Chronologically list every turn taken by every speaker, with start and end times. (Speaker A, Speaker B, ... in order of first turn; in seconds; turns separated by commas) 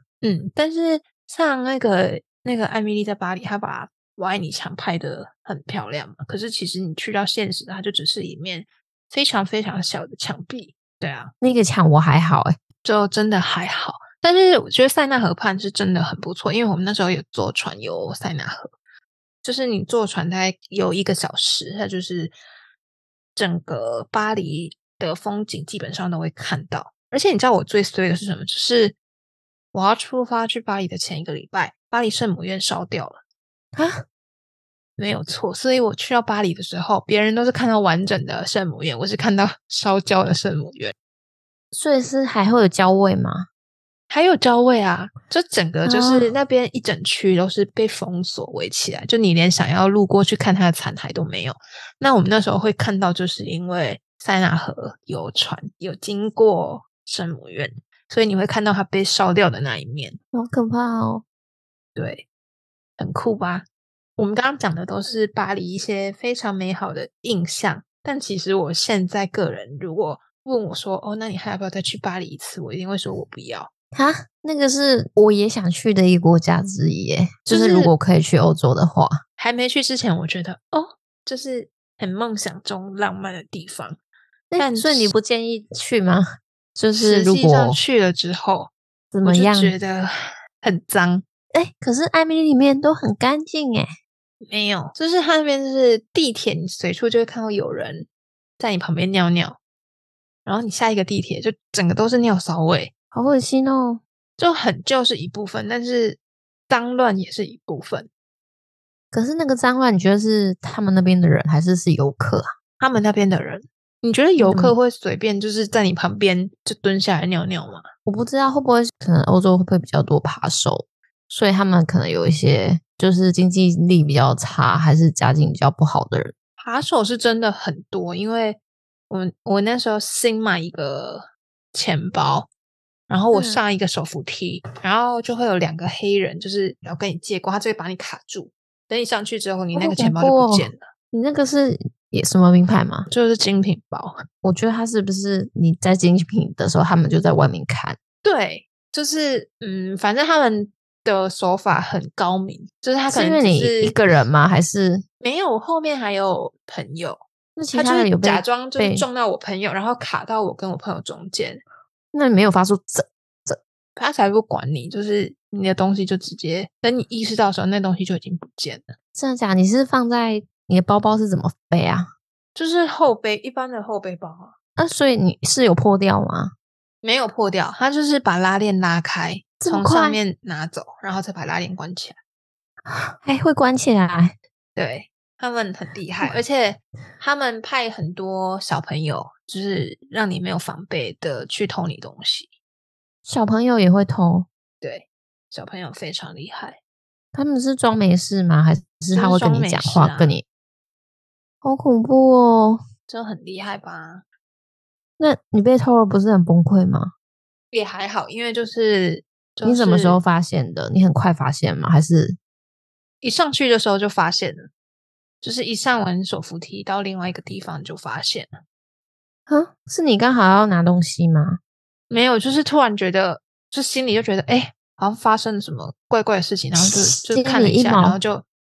Speaker A: 0.2-11.3, Speaker B: 11.4-12.5, Speaker A: 12.8-18.7, Speaker A: 19.4-22.3, Speaker A: 23.4-29.0, Speaker A: 29.7-33.2, Speaker B: 33.8-34.0, Speaker A: 35.0-40.9, Speaker B: 41.7-43.5, Speaker A: 44.1-60.2, Speaker B: 45.9-46.3, Speaker B: 60.3-61.2, Speaker A: 62.0-62.3, Speaker A: 63.0-63.6, Speaker A: 64.2-73.7, Speaker B: 73.9-79.2, Speaker A: 77.5-77.9, Speaker A: 79.4-84.0, Speaker B: 84.5-86.2, Speaker A: 84.6-85.1, Speaker B: 86.8-87.8, Speaker A: 86.9-88.7, Speaker B: 89.1-89.7, Speaker A: 89.2-91.2, Speaker B: 91.5-93.9, Speaker A: 94.4-98.1, Speaker A: 98.6-99.6, Speaker A: 100.5-102.9, Speaker B: 103.1-104.0, Speaker A: 104.4-108.1, Speaker B: 109.1-112.5, Speaker A: 112.8-117.9, Speaker B: 114.4-114.8, Speaker B: 118.1-126.3, Speaker A: 126.6-132.5, Speaker A: 133.1-140.8, Speaker B: 133.3-133.6, Speaker B: 139.7-143.1, Speaker A: 143.1-144.2, Speaker B: 144.4-148.0, Speaker A: 148.2-153.9, Speaker B: 153.1-155.0, Speaker A: 155.2-157.2, Speaker B: 157.6-159.1, Speaker A: 157.7-161.6, Speaker B: 162.1-163.6, Speaker A: 164.0-168.9, Speaker B: 169.1-172.1, Speaker A: 172.6-174.5, Speaker B: 174.8-176.5, Speaker A: 177.0-182.2, Speaker B: 179.6-180.2, Speaker B: 182.9-184.3, Speaker A: 184.8-192.5, Speaker B: 193.2-194.5, Speaker A: 194.8-196.8, Speaker B: 197.3-200.4, Speaker A: 199.1-200.4, Speaker B: 201.6-202.8, Speaker A: 203.1-204.2, Speaker B: 205.2-207.1, Speaker A: 207.7-210.2, Speaker B: 209.6-212.4, Speaker A: 213.2-214.7, Speaker A: 215.4-218.5, Speaker B: 219.5-221.6, Speaker A: 222.1-228.4, Speaker B: 226.8-228.2